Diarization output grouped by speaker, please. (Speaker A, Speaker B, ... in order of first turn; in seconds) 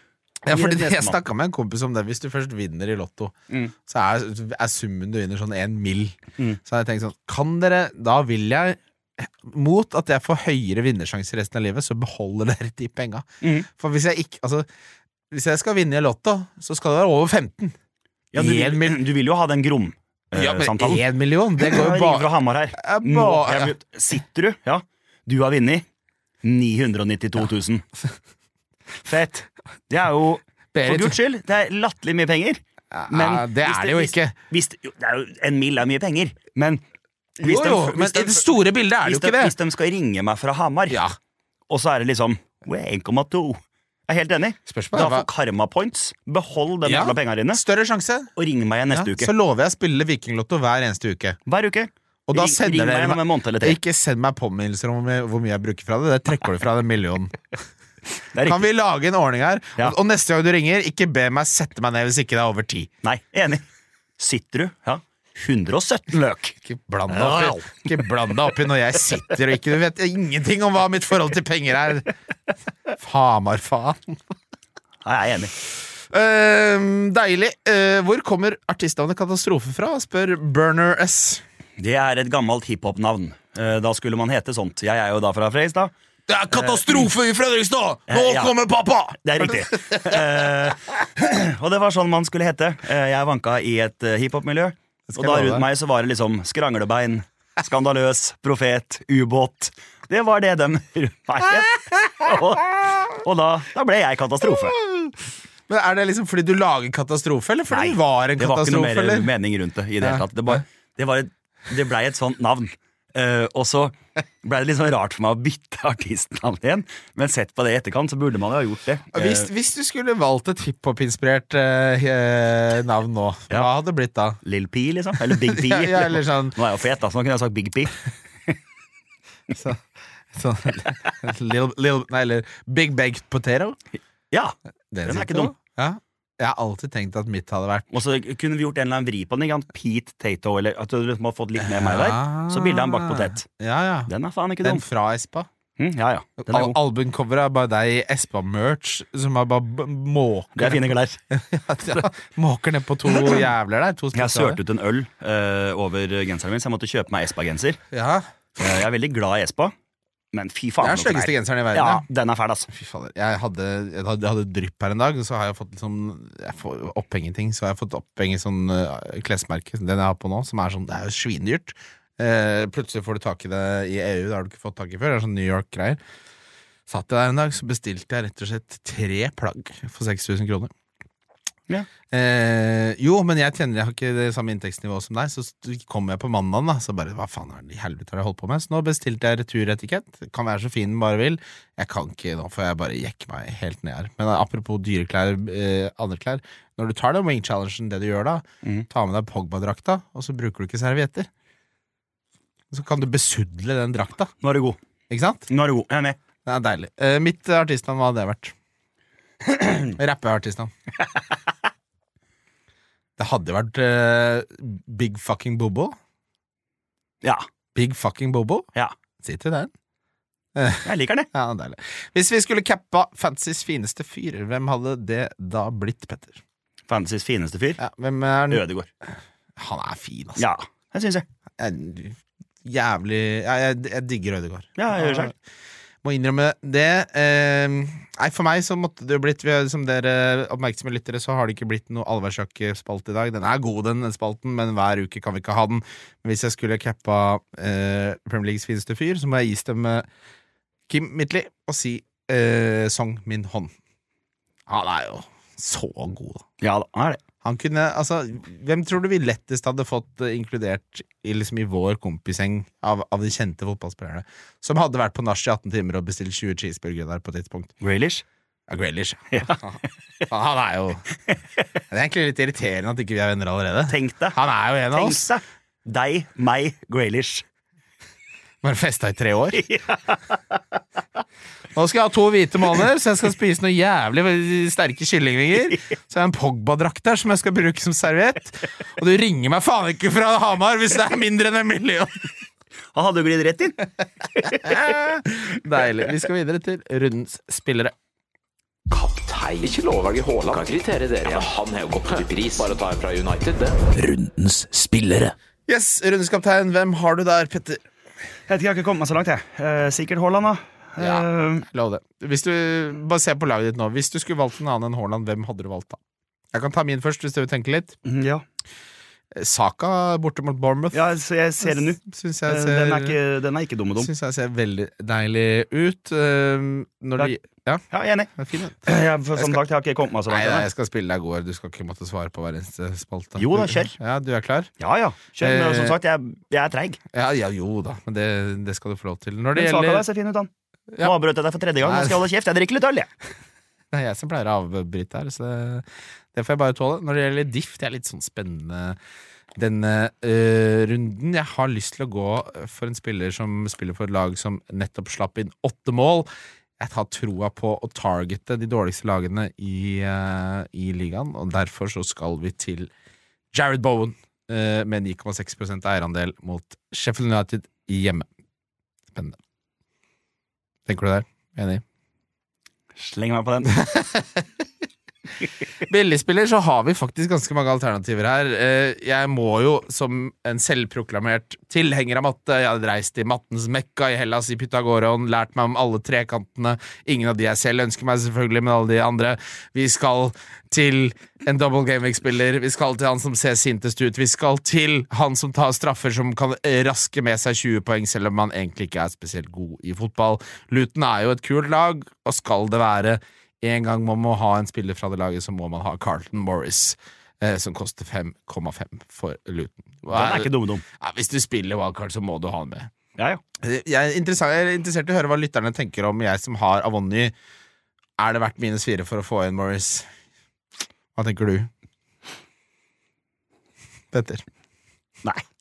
Speaker A: 0.4-14.7, 15.3-17.7, 18.3-19.0, 20.3-23.7, 30.7-31.2, 32.9-34.3, 37.4-39.5, 40.9-41.1, 44.7-45.3, 46.8-48.3, 48.9-51.4, 52.3-57.4, 58.4-62.9, 66.6-72.1, 73.0-74.2, 76.1-81.4, 86.3-90.4, 95.1-95.6, 104.8-105.1, 105.7-109.3, 119.1-124.4, 125.2-126.6, 129.5-133.8, 134.9-137.9, 141.6-144.1, 144.6-145.5, 146.4-154.6, 157.9-158.3, 160.8-162.0, 162.7-176.0, 176.9-180.7, 182.1-201.3, 202.7-204.3, 205.1-205.5, 206.4-208.5, 209.9-210.7, 213.2-215.9, 217.7-218.7, 219.2-219.7, 220.5-226.4, 227.8-230.4, 231.6-235.3, 236.0-250.1, 250.9-253.7, 254.7-256.4, 257.4-267.7, 268.7-271.0, 271.9-275.3, 278.6-279.7, 281.7-292.3, 294.4-297.9, 305.7-307.8, 311.0-316.0, 316.5-318.0, 319.3-321.0, 321.6-323.2, 324.0-327.8, 328.4-329.6, 330.3-334.7, 335.4-336.0, 337.1-340.0, 341.8-342.2, 343.9-349.0, 349.6-356.3, 356.8-362.9, 363.5-368.3, 369.1-369.4, 370.9-371.8, 373.7-374.5, 375.8-412.9, 413.6-417.3, 418.2-420.1, 421.1-421.7, 424.1-424.4
Speaker B: 0.5-1.2, 13.4-13.7, 18.3-21.0, 21.6-25.9, 26.4-27.9, 29.0-36.8, 37.4-38.5, 39.0-41.0, 41.7-47.6, 48.4-49.3, 51.5-53.8, 58.3-58.6, 63.0-63.6, 64.2-66.5, 67.1-67.8, 75.0-75.5, 81.8-85.9, 86.5-87.1, 88.1-88.5, 89.2-104.8, 107.7-119.5, 124.4-128.6, 134.3-135.5, 137.9-143.5, 144.1-144.8, 145.8-146.8, 150.6-151.2, 154.1-157.8, 158.6-159.7, 160.3-162.7, 204.4-204.8, 205.5-206.2, 209.4-209.9, 220.8-221.3, 226.9-227.8, 228.5-228.9, 230.4-231.2, 234.8-235.3, 256.6-257.2, 267.8-268.2, 269.3-269.6, 273.9-274.4, 274.9-277.4, 279.5-280.6, 292.9-293.8, 294.4-294.8, 308.5-311.6, 318.0-318.4, 320.9-324.1, 327.9-328.3, 328.8-330.7, 333.4-334.0, 334.8-337.0, 339.5-343.1, 373.0-373.8, 410.1-410.8
Speaker C: 298.9-305.3